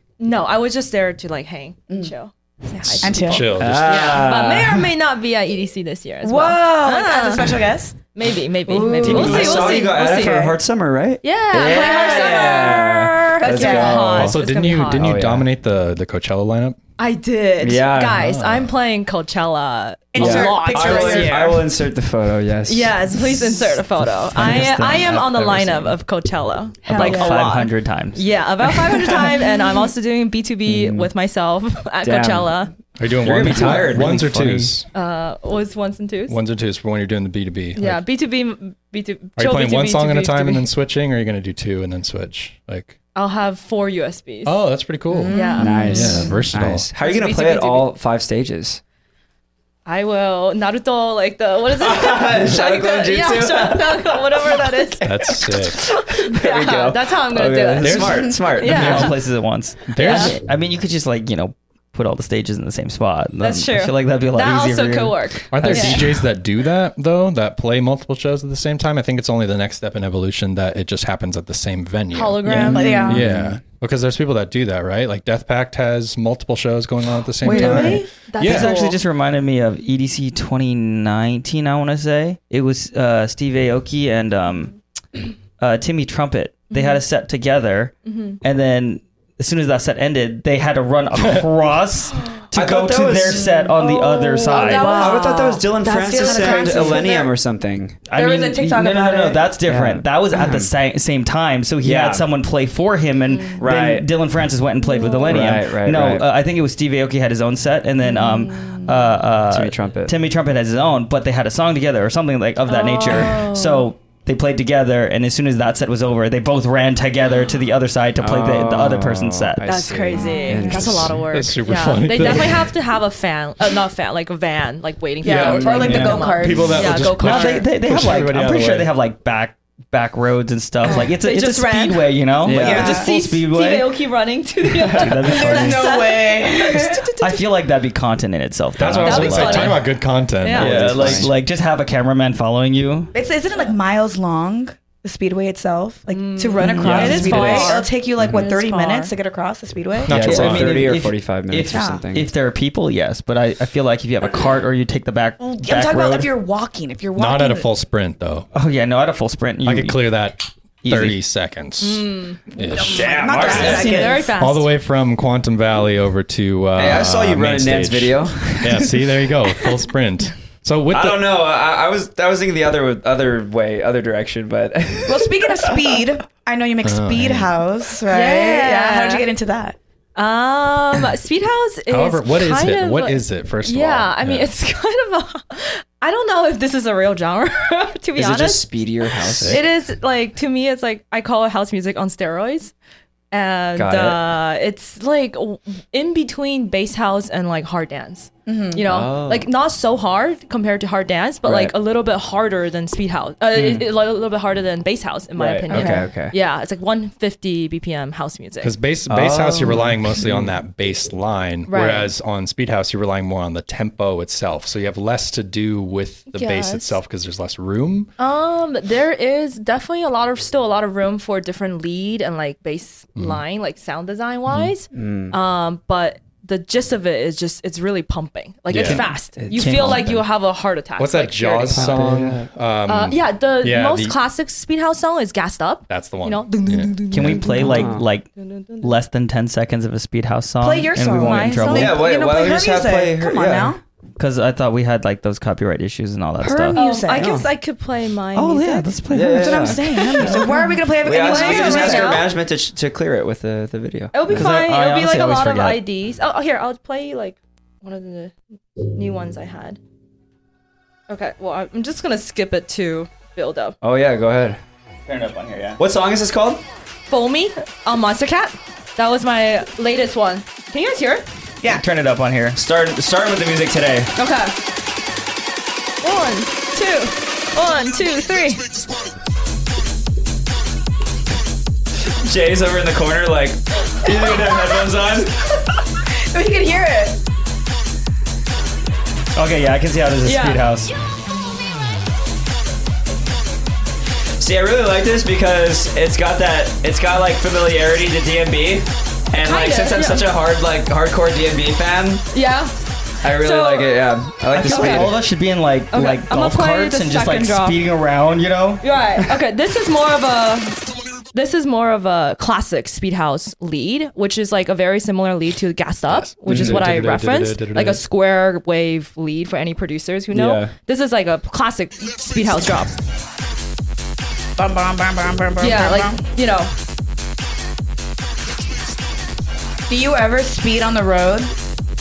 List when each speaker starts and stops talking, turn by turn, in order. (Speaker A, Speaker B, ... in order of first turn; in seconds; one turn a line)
Speaker A: 0.2-10.6
Speaker B: 2.8-4.2
Speaker C: 3.0-3.5
Speaker D: 3.6-4.9
Speaker C: 6.2-8.0
Speaker D: 8.7-14.4
Speaker C: 8.7-10.2
Speaker E: 9.1-9.6
Speaker A: 11.2-15.2
Speaker C: 11.6-14.2
Speaker B: 14.1-16.8
Speaker D: 15.0-15.5
Speaker A: 17.0-21.6
Speaker D: 17.6-18.2
Speaker B: 18.1-18.7
Speaker C: 20.1-21.6
Speaker D: 20.2-23.0
Speaker A: 22.7-32.8
Speaker E: 24.4-25.1
Speaker B: 24.4-26.0
Speaker E: 26.9-29.1
Speaker C: 26.9-27.4
Speaker D: 30.7-31.1
Speaker D: 32.0-32.5
Speaker B: 33.0-34.9
Speaker D: 33.2-34.8
Speaker A: 34.9-36.4
Speaker B: 36.3-38.0
Speaker A: 37.8-40.7
Speaker B: 39.4-43.0
Speaker A: 43.1-44.6
Speaker B: 44.5-46.9
Speaker C: 45.1-46.4
Speaker A: 45.3-46.4
Speaker D: 45.4-48.8
Speaker A: 47.0-47.9
Speaker A: 49.9-55.0
Speaker D: 51.7-59.1
Speaker B: 55.0-55.8
Speaker A: 56.0-59.1
Speaker B: 57.8-59.1
Speaker E: 58.6-66.1
Speaker B: 59.9-60.4
Speaker A: 60.0-60.4
Speaker A: 63.4-66.1
Speaker B: 65.5-78.7
Speaker A: 72.1-73.1
Speaker D: 72.5-73.6
Speaker C: 72.7-73.3
Speaker A: 77.4-79.0
Speaker E: 77.4-84.8
Speaker E: 85.6-95.0
Speaker A: 86.7-87.0
Speaker A: 88.1-88.4
Speaker D: 92.5-93.5
Speaker C: 93.4-97.3
Speaker A: 93.8-97.2
Speaker D: 94.9-98.0
Speaker E: 98.1-119.9
Speaker C: 98.1-99.5
Speaker D: 99.7-100.7
Speaker D: 101.8-102.3
Speaker A: 103.3-103.6
Speaker D: 103.6-104.1
Speaker A: 104.8-105.5
Speaker D: 105.3-106.3
Speaker A: 108.1-108.8
Speaker D: 109.5-110.2
Speaker A: 112.7-113.9
Speaker D: 118.2-121.2
Speaker A: 119.6-127.7
Speaker C: 120.1-120.9
Speaker B: 121.0-122.8
Speaker C: 125.2-126.8
Speaker D: 125.3-126.3
Speaker E: 125.8-126.2
Speaker B: 126.3-128.9
Speaker E: 127.0-134.0
Speaker A: 130.8-137.4
Speaker D: 132.4-133.0
Speaker C: 132.5-133.1
Speaker D: 134.8-135.2
Speaker E: 134.9-135.9
Speaker C: 135.2-137.1
Speaker E: 137.2-139.9
Speaker B: 138.8-141.3
Speaker A: 139.0-139.9
Speaker A: 140.4-140.8
Speaker D: 140.6-141.3
Speaker E: 140.6-143.1
Speaker C: 143.1-150.2
Speaker A: 146.1-149.1
Speaker D: 146.8-148.4
Speaker B: 150.1-150.9
Speaker D: 150.1-152.3
Speaker E: 150.1-156.3
Speaker C: 151.7-152.1
Speaker C: 155.4-157.7
Speaker B: 157.2-158.5
Speaker E: 158.5-160.0
Speaker B: 159.6-171.3
Speaker E: 160.8-161.2
Speaker A: 161.8-162.4
Speaker C: 162.7-164.3
Speaker D: 162.8-164.2
Speaker A: 163.3-164.7
Speaker D: 166.8-169.3
Speaker D: 170.9-176.0
Speaker C: 175.1-179.8
Speaker B: 176.8-177.5
Speaker A: 178.1-179.3
Speaker A: 180.2-188.7
Speaker B: 181.9-184.5
Speaker D: 188.2-189.6
Speaker B: 189.3-189.6
Speaker A: 189.4-192.7
Speaker A: 193.3-208.7
Speaker D: 193.8-194.2
Speaker C: 198.5-198.9
Speaker D: 198.8-199.5
Speaker D: 201.4-201.7
Speaker E: 203.6-203.8
Speaker D: 205.3-206.4
Speaker C: 205.7-206.1
Speaker B: 208.6-218.1
Speaker D: 209.1-210.6
Speaker A: 211.7-212.1
Speaker A: 216.3-217.0
Speaker A: 218.2-232.0
Speaker B: 223.2-223.4
Speaker D: 224.9-225.4
Speaker B: 228.7-229.1
Speaker D: 228.8-230.2
Speaker E: 229.5-230.2
Speaker B: 231.0-234.2
Speaker D: 231.7-232.5
Speaker A: 232.9-238.9
Speaker B: 235.9-237.6
Speaker E: 237.1-238.3
Speaker D: 237.6-238.1
Speaker E: 238.8-242.0
Speaker C: 240.6-243.8
Speaker A: 241.2-242.0
Speaker D: 241.7-243.8
Speaker E: 244.2-246.8
Speaker C: 246.4-247.4
Speaker A: 246.7-248.9
Speaker D: 247.2-247.5
Speaker E: 248.3-250.3
Speaker D: 249.1-250.5
Speaker C: 249.3-252.3
Speaker A: 250.2-252.3
Speaker D: 251.0-254.4
Speaker A: 254.1-259.8
Speaker E: 254.3-255.8
Speaker A: 261.1-263.8
Speaker D: 263.8-264.6
Speaker E: 265.1-265.8
Speaker D: 265.8-266.6
Speaker A: 267.1-271.3
Speaker E: 271.7-272.6
Speaker D: 272.6-274.1
Speaker A: 274.2-274.6
Speaker A: 276.0-278.7
Speaker D: 282.2-285.6
Speaker C: 286.3-287.2
Speaker E: 289.4-290.9
Speaker A: 290.2-290.6
Speaker D: 294.4-302.3
Speaker A: 299.4-300.3
Speaker A: 302.3-302.7
Speaker D: 303.2-305.1
Speaker A: 303.2-305.1
Speaker E: 304.5-308.8
Speaker A: 305.9-307.8
Speaker A: 308.8-323.0
Speaker B: 316.1-318.0
Speaker D: 316.5-316.9
Speaker D: 320.3-320.7
Speaker C: 324.6-326.2
Speaker A: 325.6-326.7
Speaker C: 329.9-331.5